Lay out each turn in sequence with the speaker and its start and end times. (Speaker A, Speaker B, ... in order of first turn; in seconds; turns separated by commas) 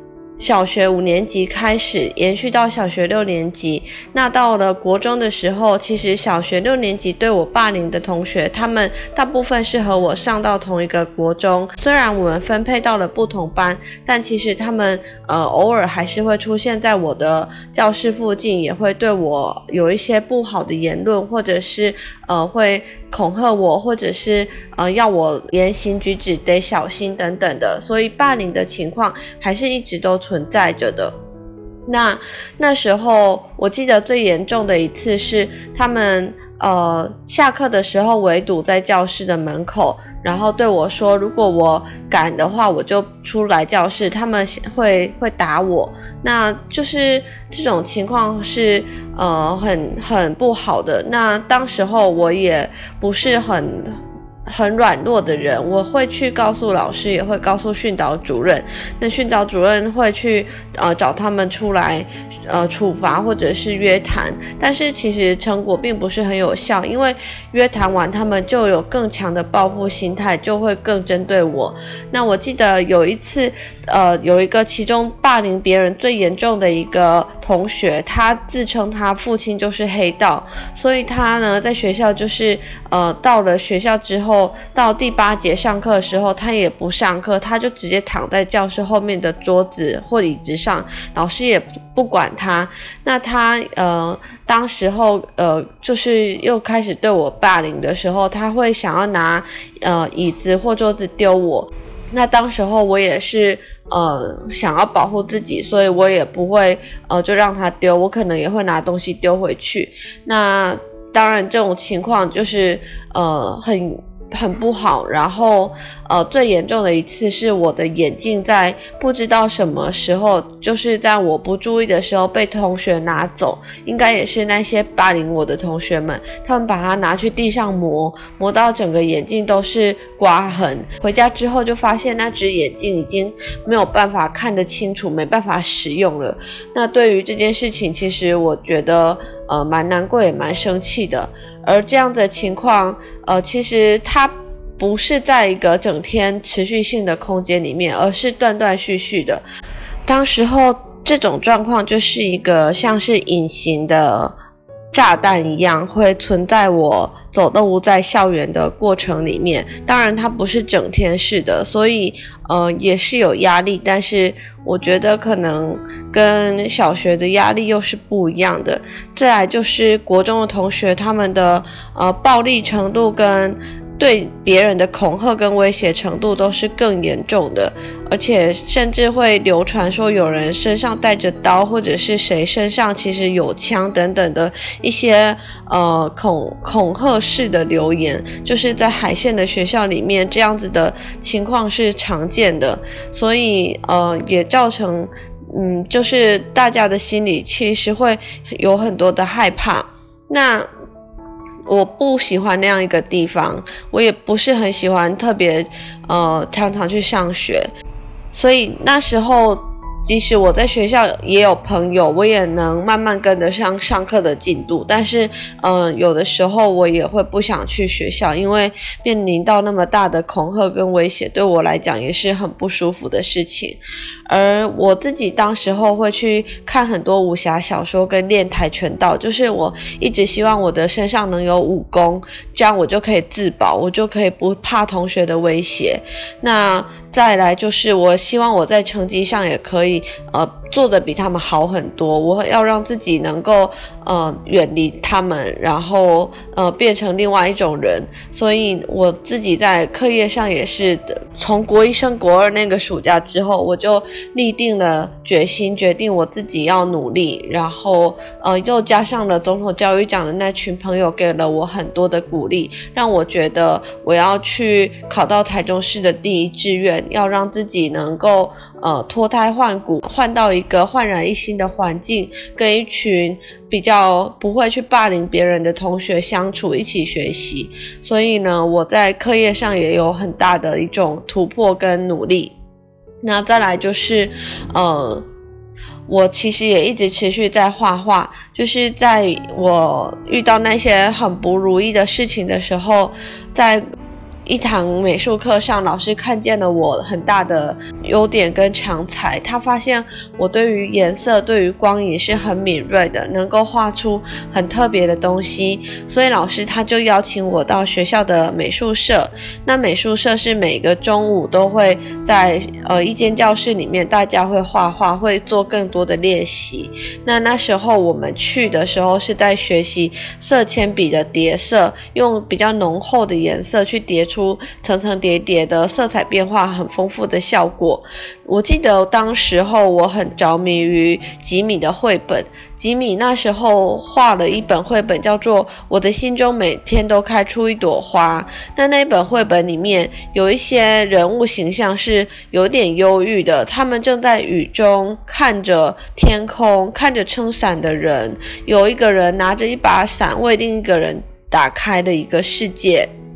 Speaker A: 0.4-31.1, Speaker A: 31.9-149.4, Speaker A: 150.1-154.3, Speaker A: 154.9-200.7, Speaker A: 201.7-207.7, Speaker A: 208.3-282.5, Speaker A: 283.2-285.2, Speaker A: 286.1-293.8, Speaker A: 294.4-353.1